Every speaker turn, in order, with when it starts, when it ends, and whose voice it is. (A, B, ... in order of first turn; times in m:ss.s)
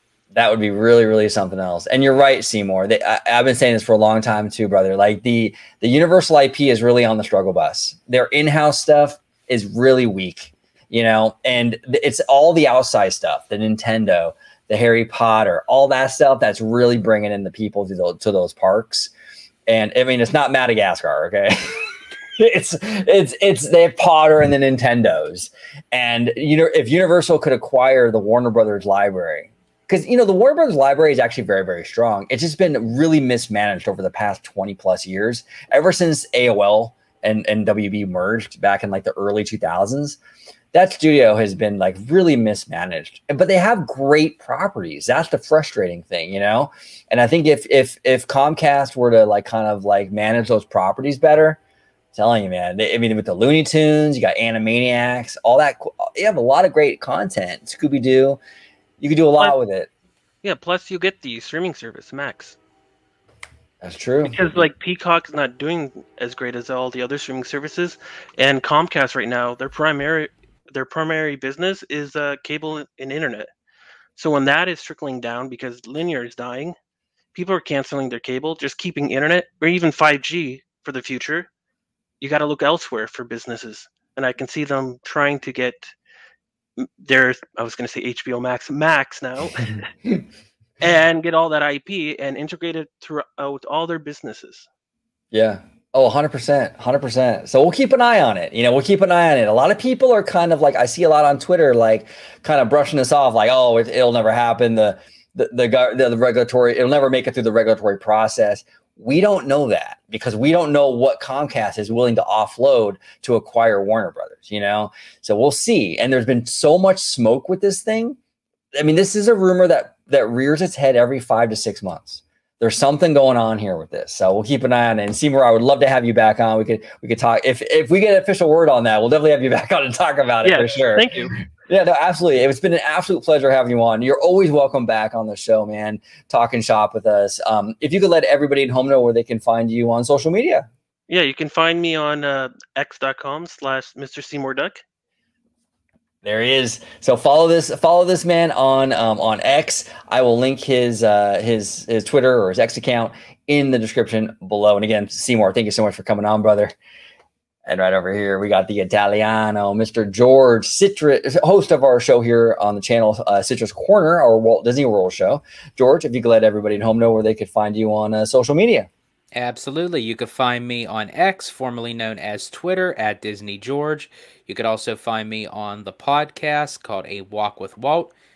0:00.3-0:19.1 A
0:19.7-0:21.8 A
0:22.4-0:40.2 A
0:40.7-0:51.6 A
0:52.1-0:58.4 A
0:59.0-0:59.9 A
1:00.4-1:02.6 B
1:03.8-1:04.7 A
1:04.2-1:13.5 B
1:14.2-1:16.8 B
1:17.4-1:21.5 B
1:22.2-1:25.9 B
1:26.8-1:29.8 B
1:30.8-1:34.7 B
1:35.3-1:58.2 A
1:58.8-2:11.1 A
2:10.4-2:11.4 B
2:11.7-2:20.7 A
2:21.1-2:24.8 B
2:26.2-2:36.7 A
2:37.7-2:48.9 A
2:49.4-2:58.1 C